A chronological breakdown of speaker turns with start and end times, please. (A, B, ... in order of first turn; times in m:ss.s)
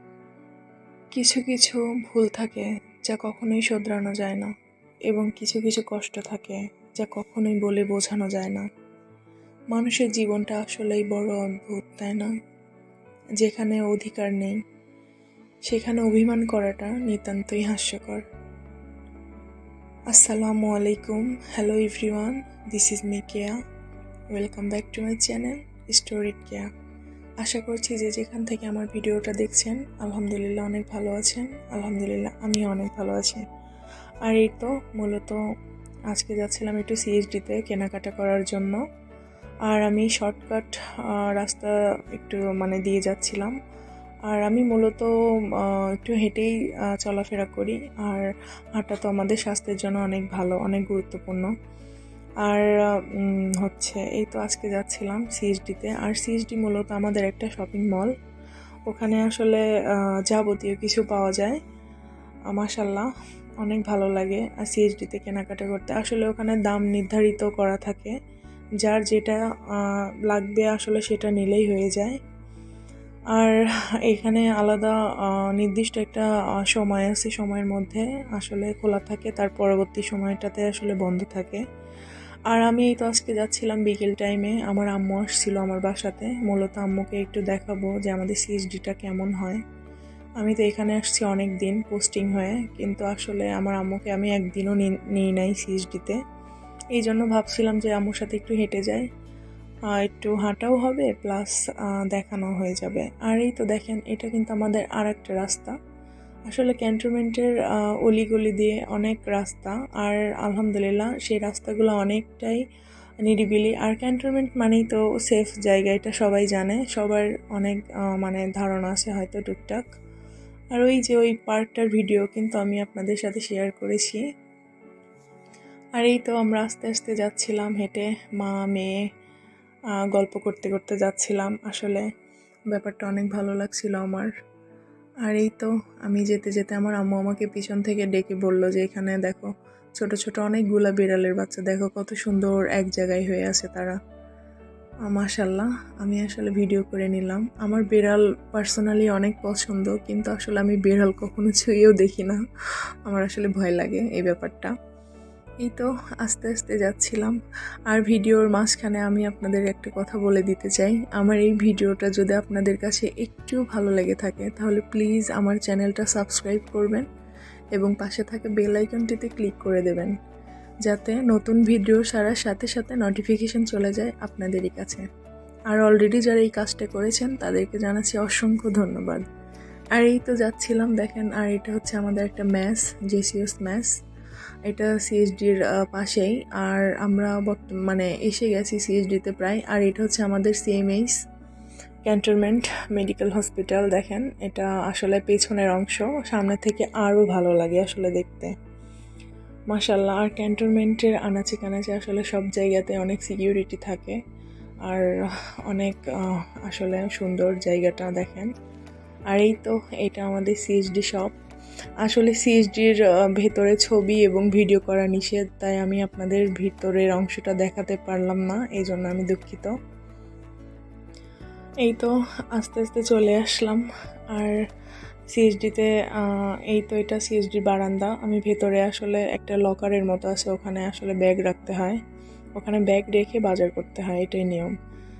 0:01.1-0:04.5 A
0:05.1-0:08.7 A
0:09.7-0:12.3 A
0:13.4-0:14.6 A
0:15.7-0:18.2 A
0:20.1-0:23.6 A
0:24.3-0:26.7 A
0:27.4-0:33.4 A
0:34.2-0:35.4 A
0:36.1-0:38.8 A
0:39.7-0:43.5 A
0:44.3-0:51.5 A
0:52.4-0:58.1 A
0:58.9-1:01.6 A
1:02.5-1:03.1 A
1:03.6-1:08.1 A
1:08.8-1:12.2 A
1:13.3-1:21.6 A
1:22.5-1:29.6 A
1:30.4-1:36.2 A
1:37.0-1:39.1 A
1:39.9-1:45.7 A
1:46.5-1:52.6 A
1:53.2-1:59.9 A
2:00.7-2:04.2 A
2:06.0-2:09.0 A
2:10.0-2:12.0 A
2:12.7-2:14.3 A
2:15.2-2:24.0 A
2:25.1-2:32.4 A
2:33.1-2:34.7 A
2:35.6-2:37.4 A
2:37.9-2:47.0 A
2:47.7-2:50.1 A
2:50.8-2:55.0 A
2:55.7-2:59.2 A
2:59.9-3:03.9 A
3:04.7-3:11.2 A
3:12.0-3:18.5 A
3:19.7-3:24.2 A
3:24.8-3:28.5 A
3:29.3-3:31.3 A
3:32.0-3:39.7 A
3:41.8-3:44.6 A
3:45.3-3:52.0 A
3:52.6-3:54.7 A